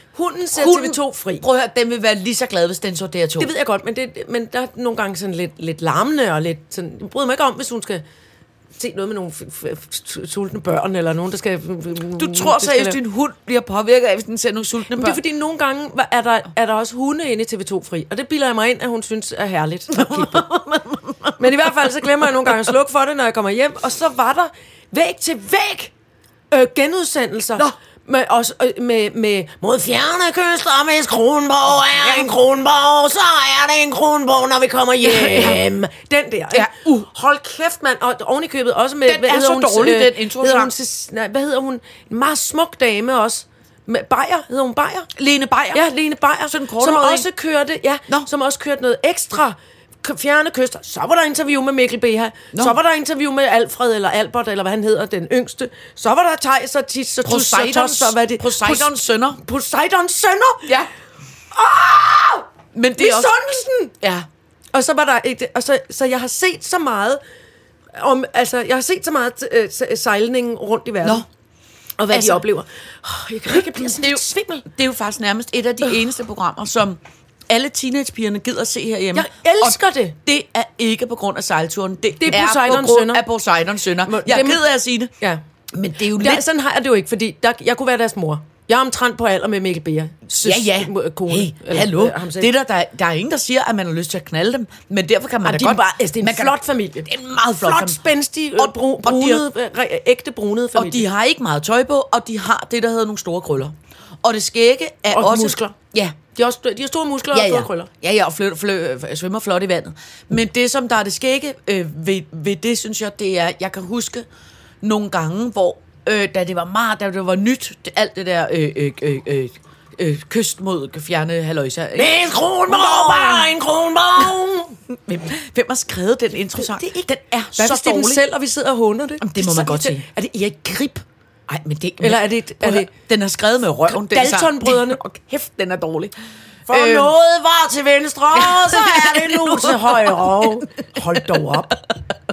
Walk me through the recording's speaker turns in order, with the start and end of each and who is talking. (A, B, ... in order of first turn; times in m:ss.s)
0:00.1-0:01.4 A
0:00.5-0:03.5 B
0:03.4-0:08.0 A
0:08.8-0:13.0 A
0:12.2-0:15.2 B
0:14.9-0:20.5 A
0:19.9-0:22.5 B
0:21.4-0:25.9 A
0:26.5-0:45.1 A
0:32.0-0:32.3 B
0:35.0-0:35.6 B
0:36.5-0:37.0 B
0:39.0-0:40.7 B
0:45.1-0:45.9 B
0:45.7-1:00.8 A
0:46.5-0:47.3 B
0:57.2-0:59.4 B
1:01.5-1:03.9 A
1:02.7-1:03.3 B
1:04.0-1:04.3 B
1:04.7-1:07.2 A
1:07.9-1:11.2 A
1:12.0-1:14.7 A
1:12.1-1:12.4 B
1:13.5-1:25.1 B
1:19.1-1:20.2 A
1:22.2-1:23.2 A
1:24.0-1:24.6 A
1:25.7-1:26.4 B
1:26.0-1:32.5 A
1:30.3-1:38.0 B
1:35.4-1:41.0 A
1:38.6-1:39.4 B
1:40.7-1:46.2 B
1:45.1-1:45.7 A
1:46.3-1:47.9 A
1:47.3-1:54.3 B
1:54.8-2:03.5 B
2:02.0-2:04.8 A
2:04.9-2:08.2 B
2:06.6-2:11.0 A
2:09.2-2:10.0 B
2:11.5-2:16.1 B
2:12.0-2:12.9 A
2:13.8-2:15.0 A
2:16.7-2:21.8 A
2:16.7-2:17.1 B
2:18.3-2:21.7 B